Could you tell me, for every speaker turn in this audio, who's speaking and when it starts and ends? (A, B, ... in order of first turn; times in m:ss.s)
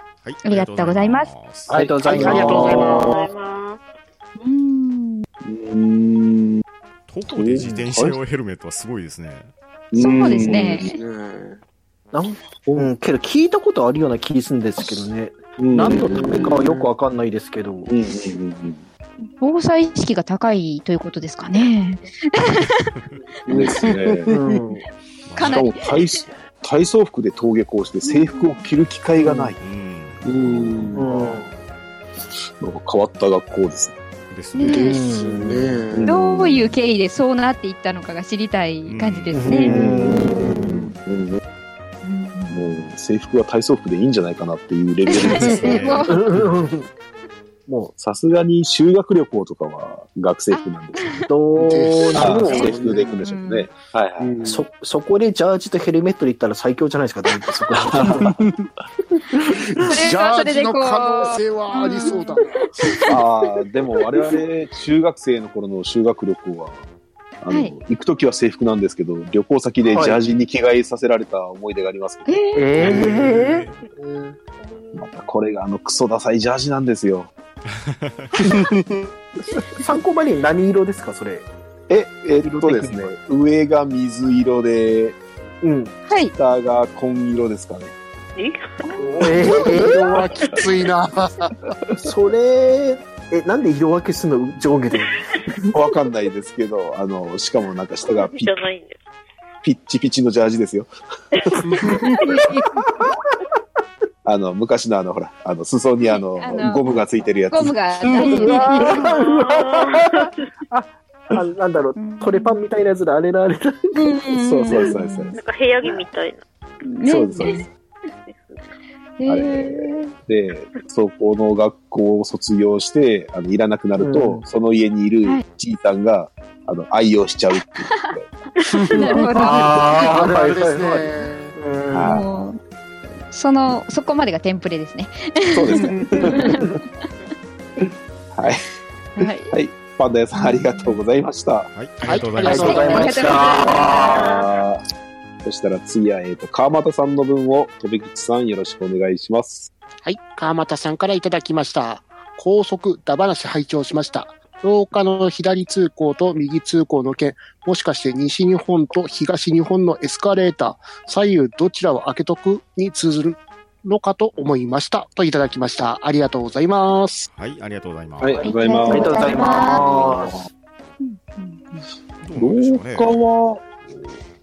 0:00.2-0:01.8 A
0:00.4-0:01.3 B
0:01.7-0:03.2 C
0:01.7-0:03.1 D
0:01.9-0:03.2 E
0:02.5-0:03.8 F
0:04.4-0:05.2 B
0:05.4-0:06.6 D
0:07.1-0:09.5 A
0:07.3-0:08.2 D
0:07.6-0:07.8 C
0:09.9-0:10.9 D
0:09.9-0:10.9 B
0:10.8-0:11.6 E
0:12.1-0:17.9 C
0:15.6-0:16.6 D
0:15.8-0:16.9 E
0:17.9-0:18.8 D
0:19.2-0:22.9 B
0:23.4-0:24.6 E
0:23.5-0:24.3 D
0:24.3-0:24.8 C
0:25.3-0:25.7 A
0:25.4-0:26.2 B
0:25.4-0:29.6 D
0:28.0-0:28.7 B
0:29.2-0:29.5 C
0:29.6-0:30.9 A
0:30.2-0:31.5 E
0:30.3-0:31.1 D
0:30.9-0:31.5 C
0:32.6-0:34.0 D
0:34.3-0:34.9 A
0:34.5-0:35.0 B
0:34.7-0:36.1 E
0:34.8-0:35.8 C
0:35.9-0:36.8 D
0:36.0-0:39.7 B
0:38.8-0:39.5 A
0:39.3-0:40.9 C
0:39.7-0:41.4 D
0:42.0-0:42.7 B
0:42.5-0:46.0 D
0:45.1-0:46.3 B
0:45.5-0:46.1 A
0:46.1-0:46.8 C
0:47.7-0:47.9 C
0:48.0-0:51.0 D
0:50.5-0:51.3 B
0:51.3-0:53.0 C
0:51.6-0:53.2 E
0:52.2-0:54.3 D
0:52.4-0:53.7 B
0:54.2-0:54.6 E
0:54.4-0:58.3 C
0:57.9-0:58.3 D
0:58.4-0:58.7 E
0:59.5-1:03.2 E
0:59.8-1:02.6 B
1:03.1-1:06.8 D
1:07.4-1:13.1 D
1:07.5-1:07.7 B
1:09.9-1:10.2 C
1:12.2-1:12.8 B
1:12.5-1:13.6 C
1:12.8-1:13.8 A
1:13.9-1:14.4 E
1:14.6-1:15.1 F
1:14.9-1:17.3 D
1:17.7-1:18.3 A
1:19.8-1:21.5 C
1:21.9-1:25.2 D
1:22.4-1:23.1 C
1:25.6-1:26.0 C
1:26.0-1:26.3 B
1:26.3-1:27.9 D
1:28.4-1:30.1 F
1:29.0-1:31.5 E
1:29.2-1:30.0 C
1:32.0-1:35.2 C
1:35.7-1:38.5 D
1:38.1-1:39.0 F
1:39.6-1:41.5 D
1:42.2-1:42.5 B
1:44.2-1:47.8 D
1:46.4-1:46.8 B
1:47.5-1:49.1 B
1:48.2-1:54.0 C
1:48.9-1:50.3 F
1:52.0-1:52.6 B
1:53.9-1:55.4 B
1:54.3-1:55.4 D
1:55.3-1:56.4 F
1:56.8-1:57.7 B
1:57.0-1:57.6 D
1:58.3-1:58.7 F
1:59.2-2:00.1 B
1:59.3-2:08.3 D
2:04.0-2:04.4 C
2:07.8-2:08.2 B
2:08.7-2:11.6 E
2:08.9-2:10.2 B
2:09.3-2:12.2 C
2:11.9-2:12.2 D
2:12.0-2:12.6 B
2:13.3-2:16.7 B
2:15.5-2:16.6 D
2:18.3-2:18.6 D
2:19.2-2:19.5 B
2:19.2-2:21.7 D
2:20.4-2:21.0 B
2:21.7-2:23.0 A
2:22.0-2:23.3 E
2:22.4-2:24.2 C
2:22.4-2:24.3 B
2:22.8-2:24.8 D
2:24.0-2:24.5 F
2:25.4-2:29.7 D
2:30.0-2:47.3 E
2:47.3-2:48.5 A
2:48.2-2:50.4 D
2:48.4-2:50.3 B
2:48.9-2:50.4 C
2:51.0-2:51.9 B
2:52.2-2:53.1 A
2:52.4-2:53.7 D